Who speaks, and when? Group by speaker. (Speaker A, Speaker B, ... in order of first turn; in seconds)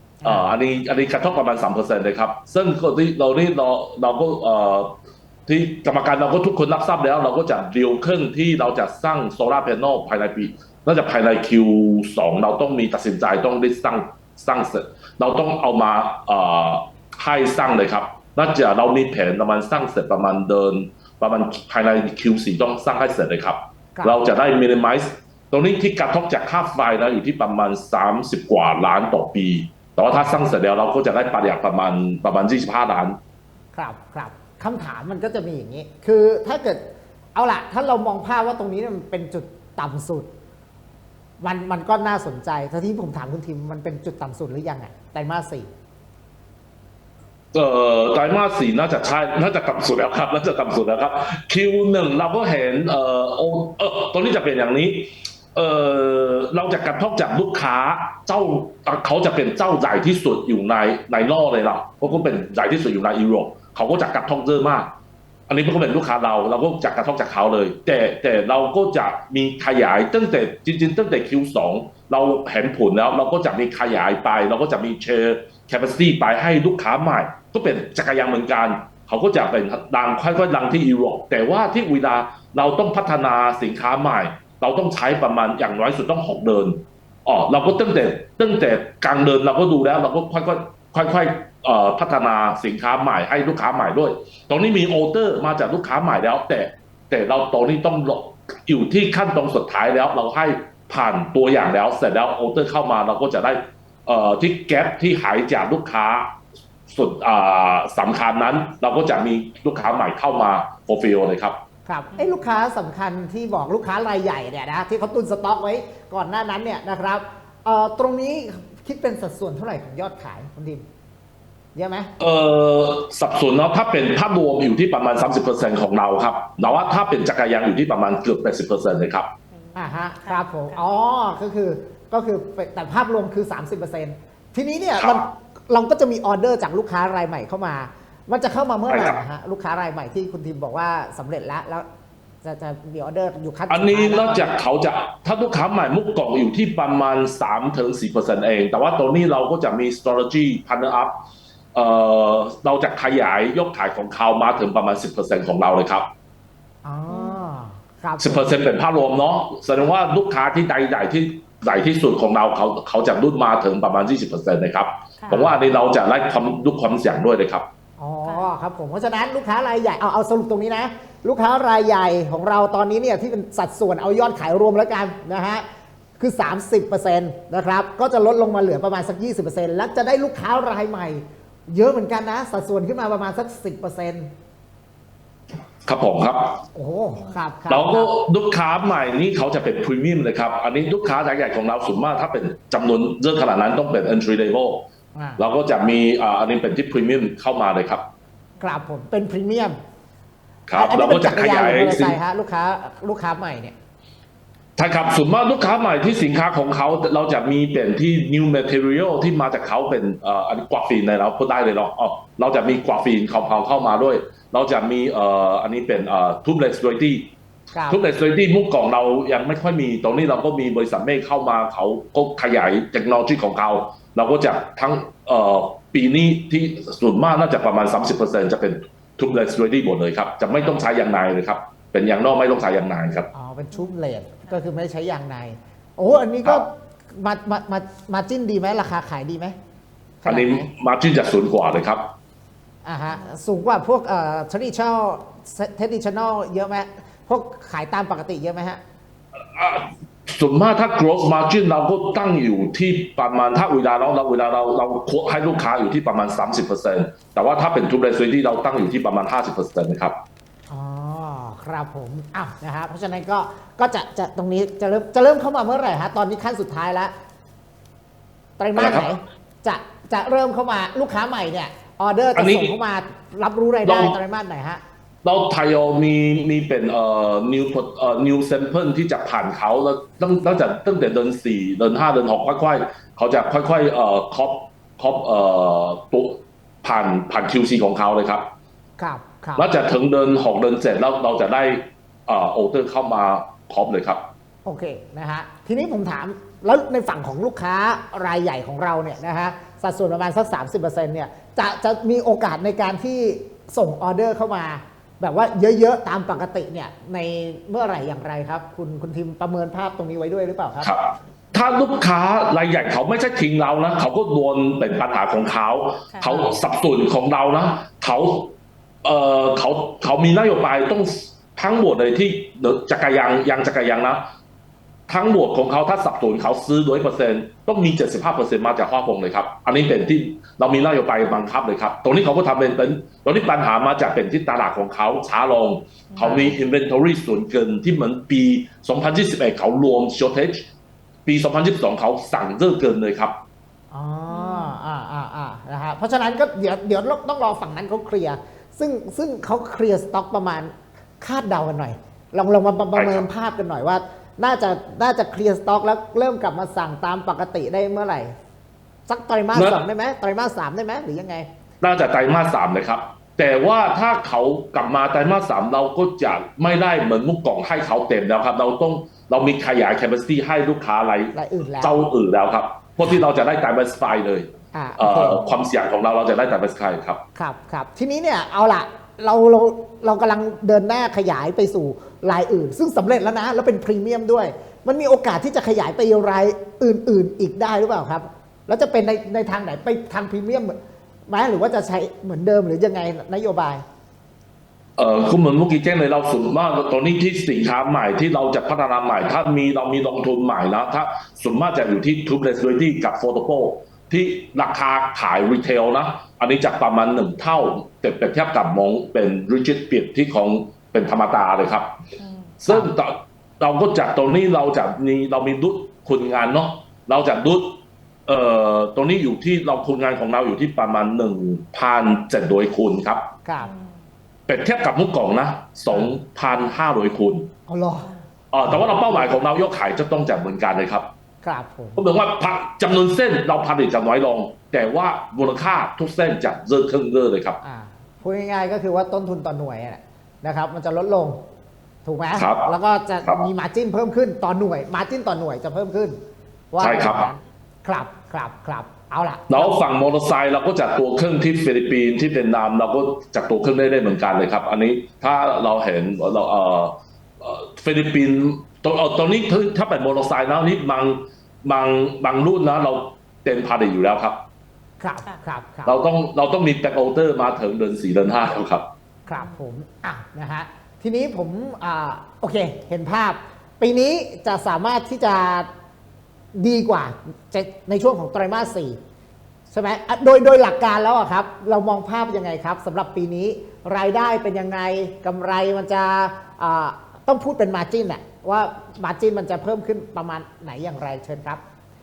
Speaker A: 0.2-0.5, 23.9-24.2, 30.1-30.4, 33.7-36.8, 37.3-40.3, 41.4-45.7, 111.8-120.8, 121.7-122.1, 129.8-141.8, 142.4-144.5, 156.8-158.5, 165.3-165.6, 168.0-175.6, 176.2-184.3, 186.7-188.1, 195.1-195.4, 198.6-199.8, 200.7-203.7, 217.7-218.0, 233.3-239.5, 240.2-240.7, 242.8-248.8, 260.7-267.1, 268.6-274.8, 289.0-289.7, 294.6-310.9, 336.2-336.5, 343.9-358.3, 359.1-361.5, 371.3-372.0, 374.7-375.4, 377.4-390.7, 391.3-393.8, 423.4-423.7, 427.7-428.1, 428.7-429.2, 431.4-432.0, 437.6-441.4, 442.0-446.2, 446.7-449.8, 465.0-466.0, 469.3-475.7, 476.5-479.0, 479.7-491.6
Speaker B: 0.2-33.2, 47.5-64.9, 65.5-106.3, 106.9-111.6, 122.2-129.3, 135.0-135.2, 138.9-139.2, 143.7-151.1, 151.7-156.1, 158.2-167.7, 185.8-186.6, 187.7-194.8, 195.4-198.0, 200.7-202.2, 204.8-217.3, 217.9-233.3, 240.2-242.1, 249.5-260.1, 268.7-269.1, 272.3-272.7, 273.8-274.2, 275.2-288.4, 289.6-294.3, 310.8-324.2, 325.1-340.6, 341.2-343.3, 352.9-353.3, 359.5-359.8, 361.8-377.2, 395.0-411.9, 412.6-423.3, 424.5-427.5, 428.5-431.1, 432.0-437.6, 442.3-442.7, 446.8-447.3, 449.5-464.4, 465.8-468.9
Speaker C: 129.5-130.8, 157.1-157.4, 316.1-316.5, 336.1-336.5, 344.3-344.8, 412.2-412.5, 423.6-423.9, 469.2-469.6